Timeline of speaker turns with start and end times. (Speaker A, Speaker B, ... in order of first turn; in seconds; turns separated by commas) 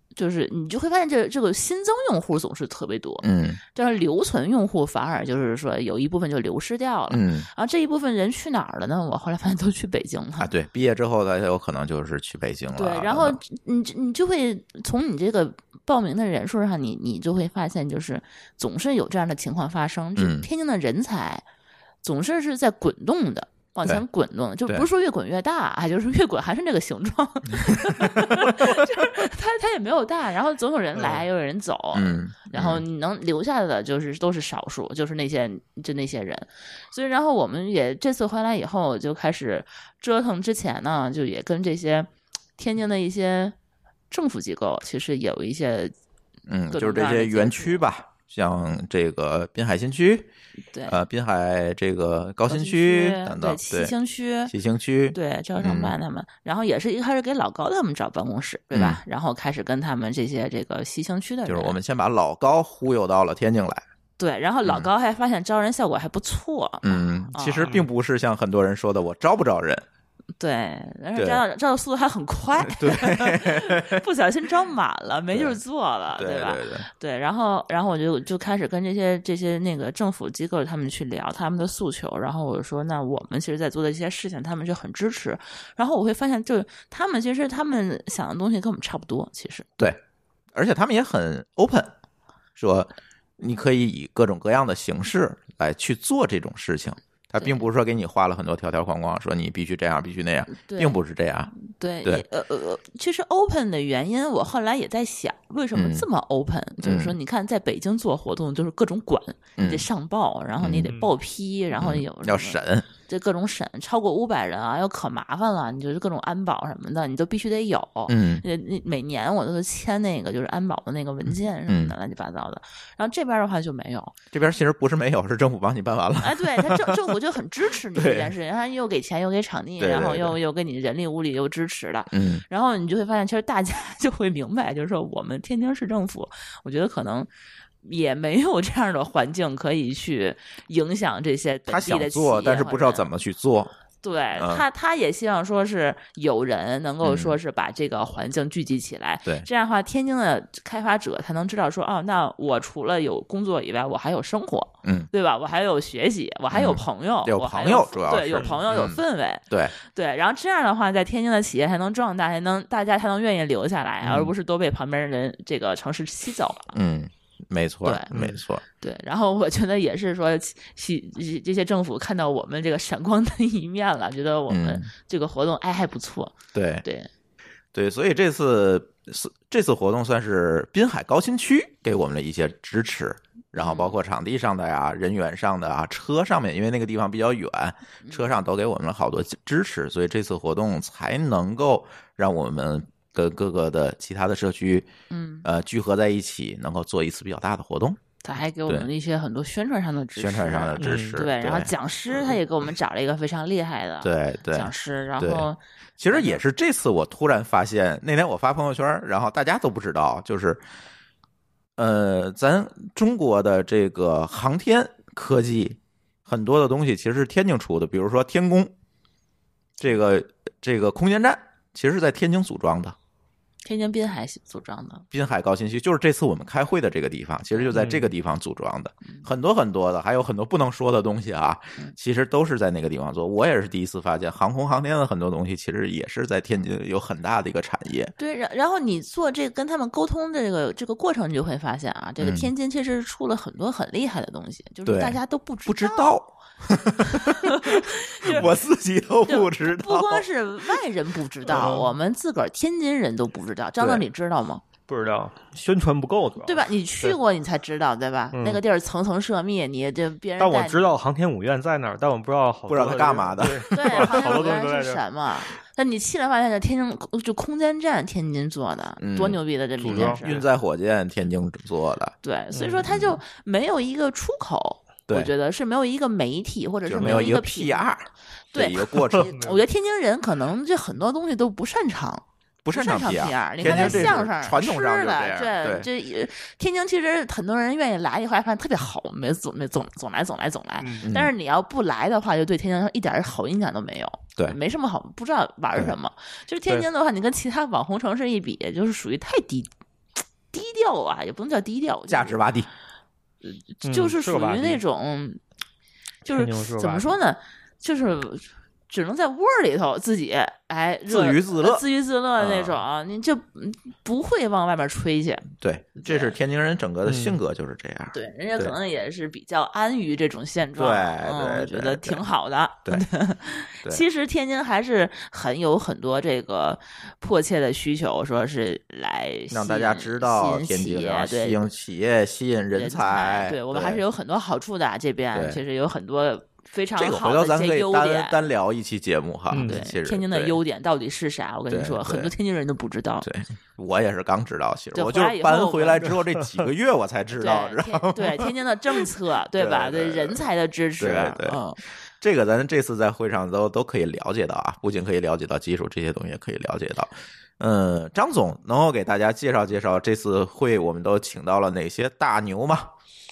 Speaker A: 0.2-10.5, Speaker B: 3.2-3.6, Speaker B: 7.1-7.5, Speaker B: 10.4-13.4, Speaker A: 12.8-21.4, Speaker B: 20.2-20.5, Speaker A: 22.0-43.6, Speaker B: 27.7-28.1, Speaker B: 31.9-32.8, Speaker A: 44.1-45.9, Speaker B: 46.5-50.3, Speaker A: 46.7-47.8, Speaker A: 50.7-51.0, Speaker B: 50.9-53.9, Speaker A: 52.5-54.5, Speaker B: 54.5-56.0, Speaker A: 55.1-61.8, Speaker B: 58.7-59.0, Speaker B: 61.5-63.8, Speaker A: 64.2-67.8, Speaker B: 66.8-69.8, Speaker A: 70.4-89.7, Speaker B: 71.2-71.4, Speaker B: 72.6-74.0, Speaker B: 75.3-75.6, Speaker B: 76.2-76.9, Speaker B: 90.5-91.9, Speaker B: 92.6-101.5, Speaker A: 100.5-101.0, Speaker A: 101.6-124.2, Speaker B: 105.8-106.1, Speaker B: 106.8-107.2, Speaker B: 109.6-109.9, Speaker B: 110.6-110.9, Speaker B: 111.8-112.9, Speaker B: 118.1-118.4, Speaker B: 121.7-122.0, Speaker B: 124.3-127.0, Speaker A: 126.2-137.3, Speaker B: 128.0-128.3, Speaker B: 129.8-130.4, Speaker B: 132.1-132.4, Speaker A: 137.8-143.1, Speaker B: 141.7-143.7, Speaker A: 144.0-166.8, Speaker B: 144.4-144.6, Speaker B: 147.0-147.4, Speaker B: 154.8-155.1, Speaker B: 156.5-159.7, Speaker B: 164.0-164.3, Speaker B: 166.8-168.6, Speaker A: 167.8-168.1, Speaker A: 168.8-177.1, Speaker B: 174.5-174.9, Speaker B: 176.5-176.8, Speaker B: 177.7-194.9, Speaker A: 183.6-183.9, Speaker A: 188.0-188.3, Speaker A: 195.1-195.5, Speaker B: 195.4-198.0, Speaker A: 198.2-206.4, Speaker B: 200.2-202.4, Speaker C: 200.8-201.2, Speaker B: 204.0-205.5, Speaker B: 206.0-210.6, Speaker B: 211.8-218.7, Speaker B: 219.8-223.0, Speaker A: 223.7-225.1, Speaker B: 225.1-238.1, Speaker C: 227.7-228.1, Speaker A: 238.2-246.2, Speaker B: 242.2-242.5, Speaker B: 244.9-250.8, Speaker A: 247.1-248.5, Speaker A: 249.3-254.6, Speaker B: 251.5-251.8, Speaker C: 251.6-251.9, Speaker C: 254.9-257.1, Speaker A: 256.4-260.9, Speaker C: 258.3-258.6, Speaker C: 260.4-265.0, Speaker B: 262.7-264.5, Speaker A: 263.7-270.4, Speaker B: 269.0-272.1, Speaker C: 269.8-270.4, Speaker A: 272.2-277.8, Speaker C: 272.5-272.9, Speaker B: 272.9-273.2, Speaker B: 276.9-279.3, Speaker C: 277.0-277.3, Speaker A: 278.5-299.7, Speaker B: 282.6-285.9, Speaker C: 283.6-284.2, Speaker C: 290.8-291.1, Speaker B: 291.1-291.3, Speaker A: 300.5-302.4, Speaker B: 302.1-302.7, Speaker A: 303.4-305.4, Speaker C: 303.8-304.8, Speaker A: 306.2-315.5, Speaker C: 306.3-307.1, Speaker B: 311.1-311.8, Speaker B: 312.4-312.8, Speaker B: 315.6-318.8, Speaker A: 316.0-316.4, Speaker C: 317.1-317.4, Speaker A: 318.1-331.6, Speaker B: 320.8-322.2, Speaker B: 329.5-334.0, Speaker A: 332.7-338.4, Speaker B: 335.3-335.6, Speaker B: 337.0-340.6, Speaker C: 339.5-339.8, Speaker A: 339.6-343.3, Speaker B: 341.7-342.3, Speaker B: 343.2-348.5, Speaker A: 344.9-346.1, Speaker A: 347.4-351.8, Speaker B: 349.6-350.4, Speaker B: 351.0-351.6, Speaker B: 352.2-362.9